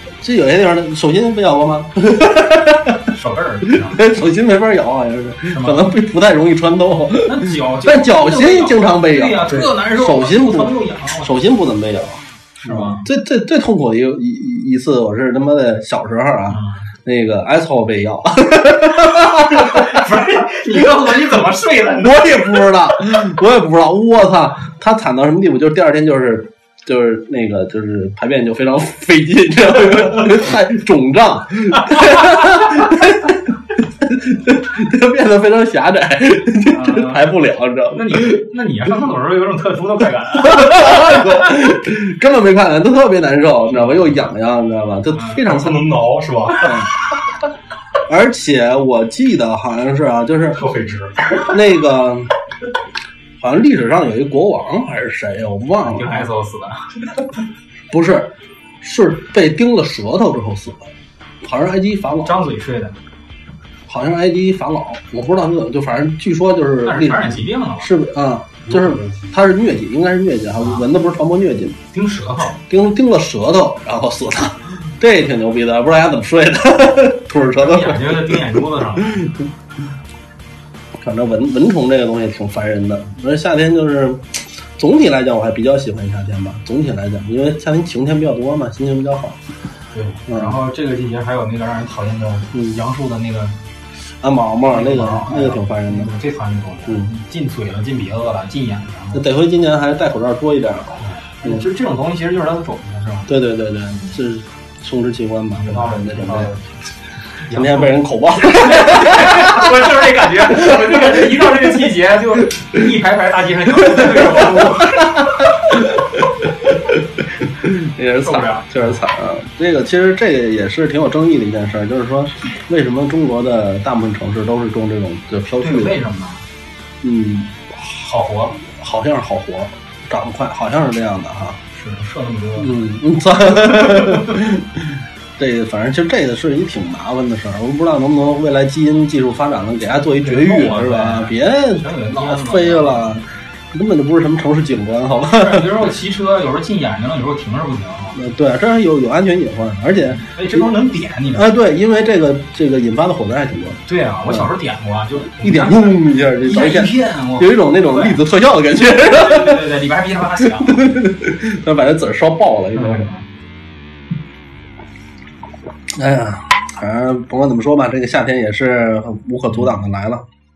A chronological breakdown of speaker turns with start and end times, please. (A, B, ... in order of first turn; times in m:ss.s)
0:00.2-0:03.0 A
0:03.0-0:04.1 B
0:03.7-0:20.0 A
0:05.4-0:05.9 B
0:07.2-0:11.4 B
0:12.6-0:13.1 B
0:16.5-0:16.8 B
0:19.1-0:22.9 B
0:22.0-0:38.4 A
0:36.7-0:37.3 B
0:37.9-0:41.4 B
0:40.3-0:45.9 A
0:43.8-0:44.1 B
0:45.1-0:45.4 B
0:45.4-0:46.9 C
0:46.6-0:46.9 A
0:48.1-0:50.6 A
0:50.5-0:51.5 C
0:51.5-0:52.3 A
0:53.4-0:56.3 A
0:55.8-0:56.9 B
0:57.9-1:00.8 A
1:01.4-1:02.4 A
1:02.2-1:03.0 B
1:03.9-1:11.8 A
1:06.8-1:07.9 B
1:10.6-1:10.8 B
1:11.9-1:12.6 B
1:12.7-1:18.4 A
1:17.5-1:19.4 B
1:21.0-1:29.4 A
1:29.9-1:33.6 B
1:30.3-1:30.6 A
1:34.2-1:36.1 A
1:34.7-1:39.2 B
1:39.1-1:41.6 A
1:41.0-1:43.3 B
1:43.3-1:46.5 A
1:45.6-1:46.7 B
1:47.4-1:55.8 B
1:47.5-1:49.7 A
1:53.9-2:06.0 A
1:58.2-1:59.0 B
2:05.6-2:06.4 B
2:07.0-2:07.6 A
2:07.8-2:08.6 B
2:08.6-2:11.6 A
2:11.7-2:13.0 B
2:12.6-2:25.8 A
2:13.7-2:14.4 B
2:20.2-2:23.2 B
2:25.3-2:28.2 B
2:28.1-2:30.7 A
2:30.0-2:31.5 B
2:31.3-2:34.5 A
2:33.9-2:38.2 B
2:35.3-2:39.6 A
2:38.8-2:41.0 B
2:40.4-2:43.1 A
2:42.7-2:43.2 B
2:45.9-2:50.2 A